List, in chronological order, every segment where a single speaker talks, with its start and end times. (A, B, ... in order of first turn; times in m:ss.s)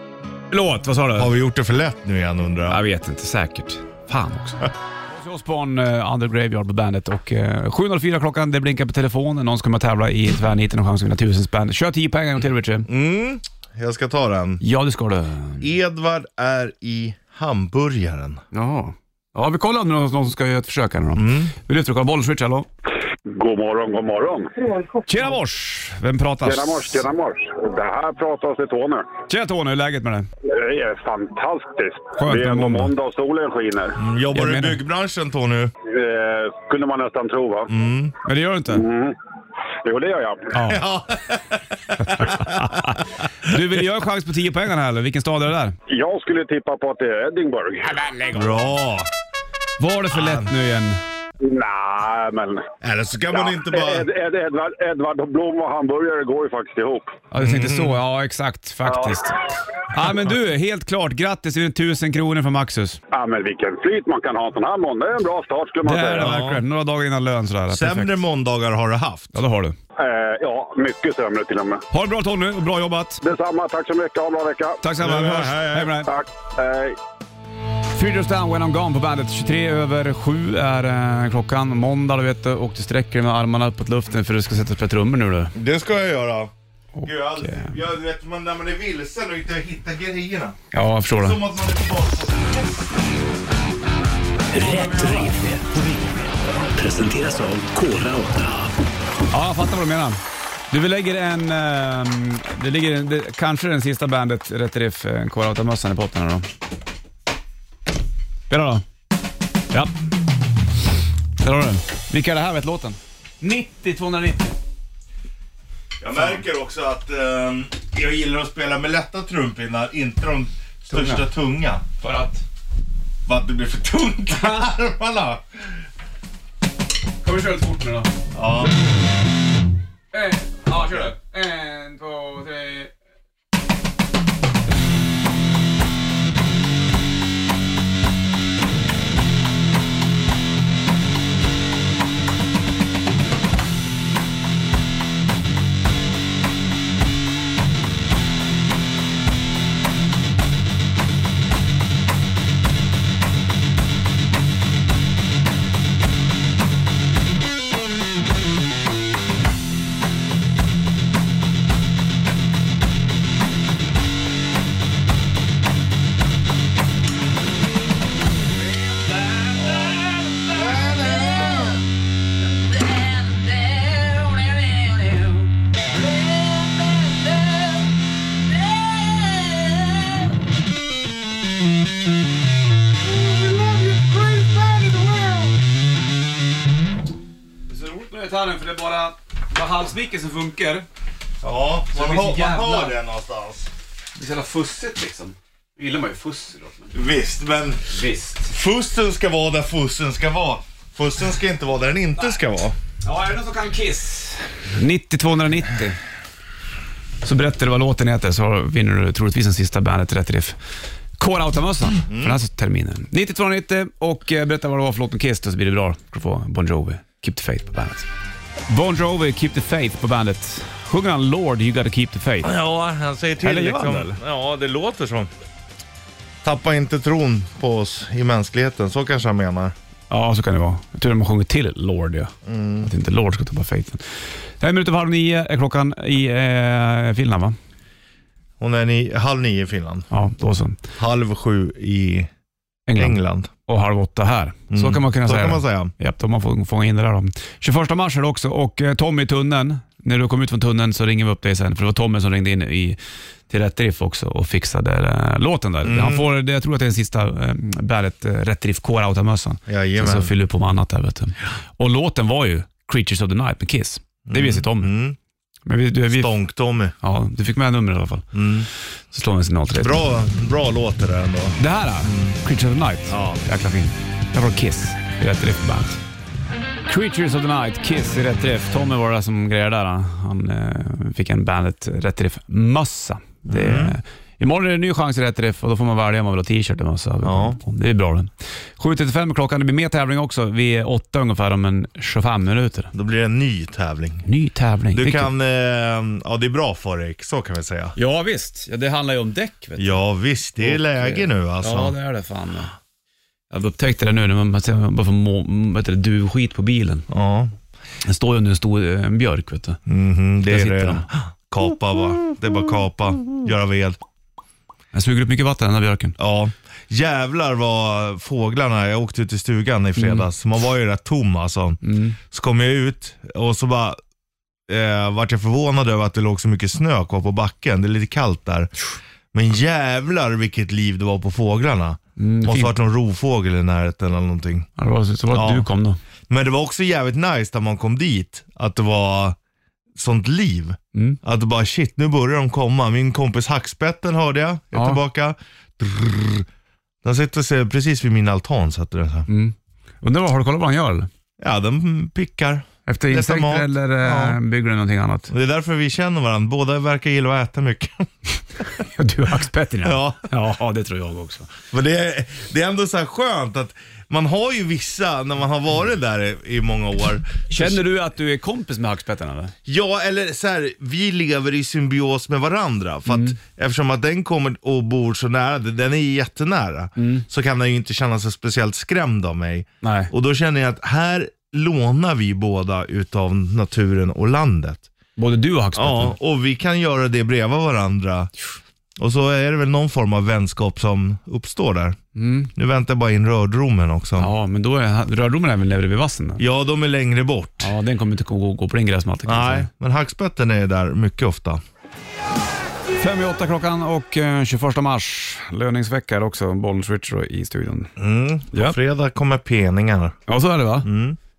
0:00.5-0:01.3 A
0:01.2-0:02.8 B
0:02.7-0:12.9 A
0:12.9-0:14.6 B
0:14.6-0:15.7 A
0:15.6-0:18.4 B
0:18.5-0:22.7 A
0:21.2-0:21.5 B
0:23.3-0:24.5 C
0:25.0-0:27.0 A
0:26.4-0:29.1 C
0:29.3-0:30.3 A
0:30.5-0:34.0 C
0:32.2-0:32.9 A
0:34.0-0:35.7 B
0:34.3-0:34.8 A
0:35.8-0:37.7 C
0:37.7-0:38.1 B
0:38.2-0:38.8 A
0:38.7-0:39.2 C
0:39.8-0:40.5 C
0:40.5-0:40.8 A
0:40.6-0:42.9 B
0:42.0-0:45.8 A
0:45.9-0:47.9 C
0:47.8-0:48.6 A
0:48.3-0:49.1 B
0:49.8-0:51.0 A
0:50.1-0:50.5 B
0:51.4-0:52.7 C
0:52.8-0:54.1 B
0:53.3-0:57.1 C
0:57.3-1:03.0 A
0:57.4-0:58.0 B
0:58.9-0:59.2 C
1:03.1-1:06.3 C
1:05.8-1:08.2 A
1:06.2-1:06.6 B
1:07.7-1:09.4 B
1:09.3-1:09.8 A
1:10.0-1:11.8 C
1:11.9-1:13.2 A
1:13.2-1:14.8 C
1:14.8-1:16.1 A
1:15.0-1:16.0 B
1:16.1-1:17.0 C
1:17.9-1:25.5 A
1:25.5-1:26.5 B
1:27.0-1:27.7 A
1:27.0-1:30.6 B
1:30.7-1:31.4 A
1:31.1-1:32.8 B
1:34.5-1:36.2 D
1:36.7-1:38.7 D
1:39.3-1:40.2 A
1:40.7-1:46.5 A
1:48.5-1:48.8 A
1:51.4-1:54.6 A
1:56.0-2:01.8 B
2:00.9-2:01.3 A
2:02.0-2:02.4 A
2:03.3-2:05.6 B
2:04.3-2:04.7 A
2:07.2-2:08.1 A
2:08.3-2:08.8 B
2:10.1-2:12.9 A
2:10.8-2:11.0 B
2:49.8-2:50.3 A
2:50.6-2:51.5 B
3:03.2-3:05.5 B
3:07.7-3:10.8 A
3:11.4-3:13.7 B
3:11.9-3:13.0 A
3:14.2-3:17.0 A
3:16.9-3:17.9 B
3:17.9-3:18.5 A
3:18.5-3:22.8 B
3:23.0-3:26.0 A
3:27.2-3:30.6 A
3:31.2-3:38.1 A
3:32.1-3:32.4 B
3:38.7-3:42.6 A
3:42.4-3:45.3 B
3:43.4-3:44.2 A
3:46.4-3:49.7 B
3:50.1-3:54.0 A
3:52.4-3:52.9 B
3:54.6-3:57.6 A
3:58.6-4:00.1 B
4:00.1-4:00.8 A
4:01.0-4:02.3 B
4:02.9-4:13.0 A
4:03.0-4:03.5 B
4:04.7-4:05.9 B
4:13.5-4:24.9 A
4:15.8-4:16.2 B
4:19.7-4:20.3 B
4:24.3-4:25.2 B
4:25.7-4:26.3 A
4:26.1-4:26.9 B
4:27.0-4:28.3 A
4:28.3-4:28.7 B
4:29.1-4:30.0 A
4:29.8-4:32.4 B
4:31.6-4:36.0 A
4:33.1-4:33.4 B
4:36.9-4:52.9 A
4:43.5-4:44.0 B
4:47.2-4:47.6 B
4:52.9-4:54.2 B
4:54.2-4:55.3 A
4:54.9-4:58.0 B
4:58.0-5:00.0 A
4:59.8-5:01.9 B
5:00.6-5:02.7 A
5:03.5-5:07.1 A
5:07.1-5:07.5 B
5:08.0-5:09.8 A
5:09.9-5:14.0 B
5:10.4-5:11.1 A
5:14.9-5:16.2 A
5:16.2-5:24.0 B
5:20.0-5:20.3 A
5:21.8-5:22.2 A
5:24.7-5:28.7 B
5:29.3-5:34.7 B
5:32.2-5:32.8 A
5:34.8-5:36.0 A
5:35.3-5:35.7 B
5:36.3-5:39.4 B
5:40.0-5:46.5 B
5:41.0-5:41.2 A
5:44.7-5:45.0 A
5:47.0-5:49.3 B
5:49.3-5:51.1 A
5:51.4-5:54.4 B
5:52.9-5:55.3 A
5:55.3-5:58.1 B
5:58.7-6:01.6 A
5:59.8-6:00.3 B
6:01.7-6:07.8 B
6:07.5-6:09.5 A
6:09.7-6:24.9 B
6:13.1-6:13.4 A
6:17.0-6:17.2 A
6:19.8-6:20.1 A
6:25.2-6:26.2 A
6:25.8-6:28.3 B
6:29.0-6:32.0 B
6:32.2-6:32.5 A
6:32.6-6:34.3 B
6:34.2-6:36.4 A
6:36.4-6:37.7 B
6:37.6-6:39.7 A
6:39.3-6:41.6 B
6:42.9-6:47.9 A
6:48.0-6:50.2 B
6:48.5-6:48.8 A
6:50.3-6:50.9 A
6:50.8-6:51.2 B